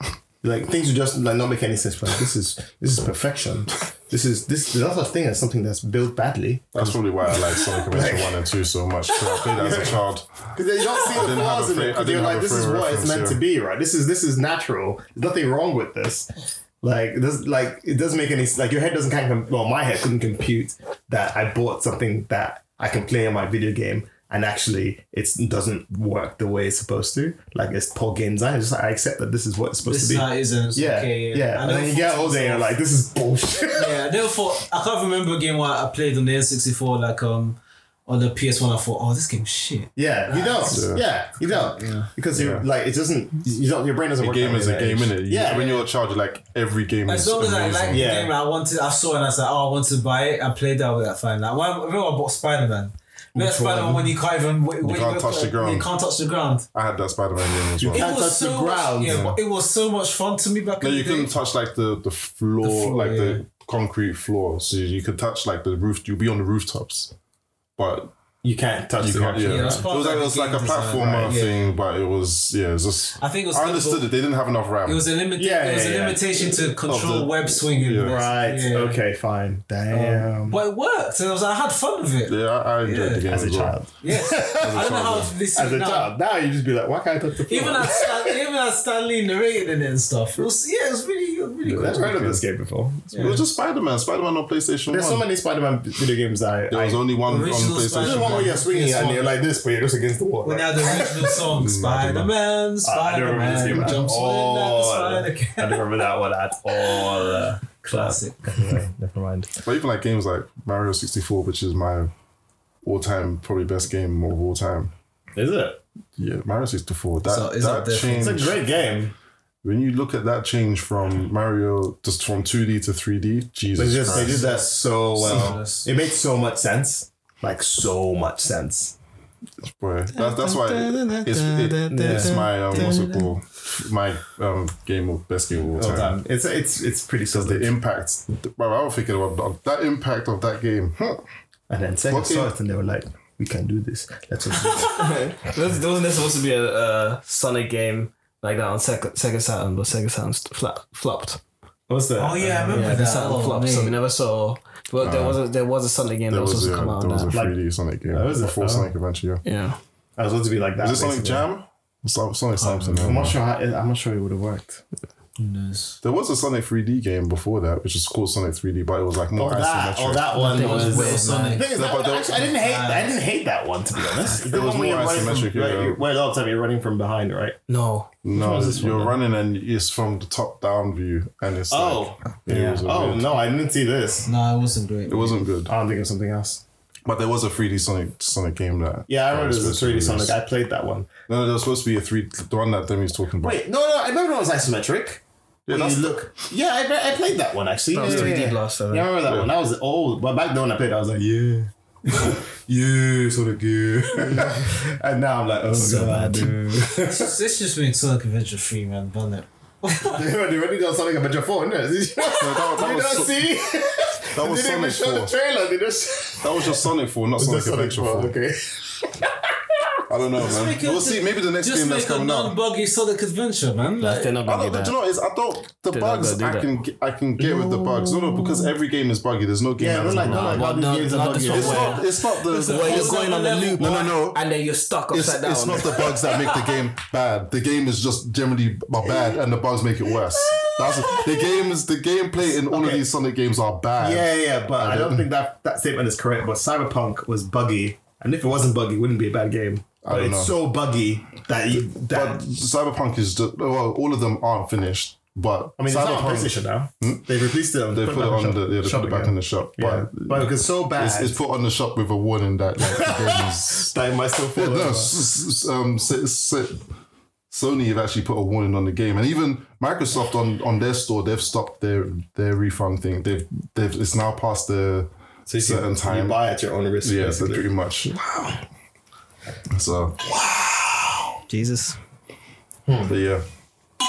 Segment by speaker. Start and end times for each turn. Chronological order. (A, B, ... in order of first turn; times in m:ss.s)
0:00.4-0:08.4 A
0:06.7-0:10.3 B
0:09.4-0:10.0 A
0:10.5-0:16.3 A
0:11.0-0:13.4 B
0:16.8-0:34.0 A
0:29.9-0:32.7 C
0:33.7-0:42.1 C
0:40.0-0:45.7 A
0:40.7-0:41.0 B
0:42.4-0:42.6 B
0:44.2-0:48.1 B
0:45.4-0:45.9 C
0:47.1-0:56.7 C
0:47.9-0:48.3 A
0:53.4-0:54.2 A
0:54.8-0:55.9 B
0:56.7-0:58.1 B
0:57.8-0:59.3 A
0:57.9-1:01.3 C
0:59.0-0:59.4 B
1:00.8-1:07.1 B
1:02.6-1:03.4 C
1:07.8-1:08.2 B
1:08.4-1:09.9 A
1:09.0-1:15.1 B
1:09.4-1:11.7 C
1:13.2-1:14.1 C
1:14.9-1:19.0 C
1:15.4-1:16.6 A
1:16.9-1:18.2 B
1:18.0-1:20.6 A
1:19.9-1:23.3 C
1:22.3-1:23.8 B
1:23.3-1:28.4 A
1:24.0-1:26.1 C
1:24.6-1:25.3 B
1:27.5-1:32.1 C
1:31.6-1:32.4 B
1:31.8-1:33.4 A
1:33.1-1:33.4 C
1:33.2-1:35.2 B
1:34.9-1:37.0 A
1:36.7-1:38.5 B
1:37.3-1:39.3 C
1:38.0-1:41.5 A
1:40.4-1:45.8 C
1:41.5-1:42.3 B
1:42.8-1:49.5 A
1:47.8-1:48.6 C
1:49.6-1:52.1 B
1:52.8-1:54.9 B
1:55.4-1:55.8 A
1:56.2-1:58.6 B
1:57.2-1:58.6 C
1:58.2-1:59.2 A
1:59.6-2:04.5 B
2:03.8-2:09.0 A
2:04.1-2:05.9 C
2:09.6-2:16.2 B
2:10.1-2:13.3 D
2:11.9-2:13.0 A
2:15.8-2:17.8 A
2:17.3-2:21.2 B
2:21.7-2:25.4 A
2:22.1-2:22.5 B
2:24.9-2:31.4 D
2:31.9-2:33.0 A
2:32.2-2:34.0 C
2:32.7-2:37.4 D
2:35.0-2:35.4 B
2:36.3-2:39.4 B
2:37.3-2:38.9 A
2:39.4-2:39.8 D
2:40.2-2:41.5 A
2:40.8-2:43.4 B
2:42.6-2:43.2 C
2:42.9-2:44.8 A
2:45.4-2:46.0 C
2:46.0-2:50.4 B
2:49.4-2:57.6 A
2:50.3-2:51.8 C
2:50.4-2:51.6 D
2:51.7-2:52.5 B
2:52.4-2:53.1 C
2:54.4-2:56.0 B
2:57.7-2:58.2 D
2:58.2-3:03.3 B
2:58.3-2:59.2 A
3:01.7-3:04.3 A
3:02.5-3:02.8 D
3:04.3-3:05.4 C
3:05.1-3:05.7 B
3:05.7-3:06.6 A
3:07.0-3:10.4 B
3:09.1-3:11.1 A
3:11.3-3:13.6 B
3:13.4-3:27.4 A
3:15.7-3:16.3 B
3:17.9-3:19.1 D
3:18.0-3:18.3 C
3:19.2-3:19.5 B
3:25.8-3:26.5 C
3:25.9-3:26.5 D
3:27.0-3:30.2 C
3:30.1-3:40.0 A
3:32.3-3:33.5 B
3:34.3-3:35.3 B
3:36.4-3:38.3 B
3:40.1-3:42.6 B
3:40.4-3:44.3 C
3:44.0-3:45.0 D
3:44.4-3:50.7 B
3:45.9-3:46.7 D
3:47.4-3:48.6 A
3:49.8-3:52.0 A
3:50.1-3:56.3 D
3:51.4-3:53.3 B
3:51.6-3:54.1 C
3:53.8-3:54.4 B
3:55.1-4:05.3 B
3:59.0-3:59.4 A
4:02.5-4:03.1 A
4:04.0-4:12.5 A
4:10.0-4:10.5 B
4:11.9-4:17.4 B
4:15.8-4:21.4 A
4:17.9-4:23.9 B
4:22.8-4:25.2 A
4:24.6-4:26.9 B
4:27.5-4:36.4 B
4:35.5-4:37.7 A
4:37.0-4:38.2 B
4:38.2-4:38.6 D
4:39.7-4:40.2 B
4:40.2-4:41.4 A
4:41.5-4:42.0 D
4:42.9-4:43.1 A
4:43.0-4:43.5 B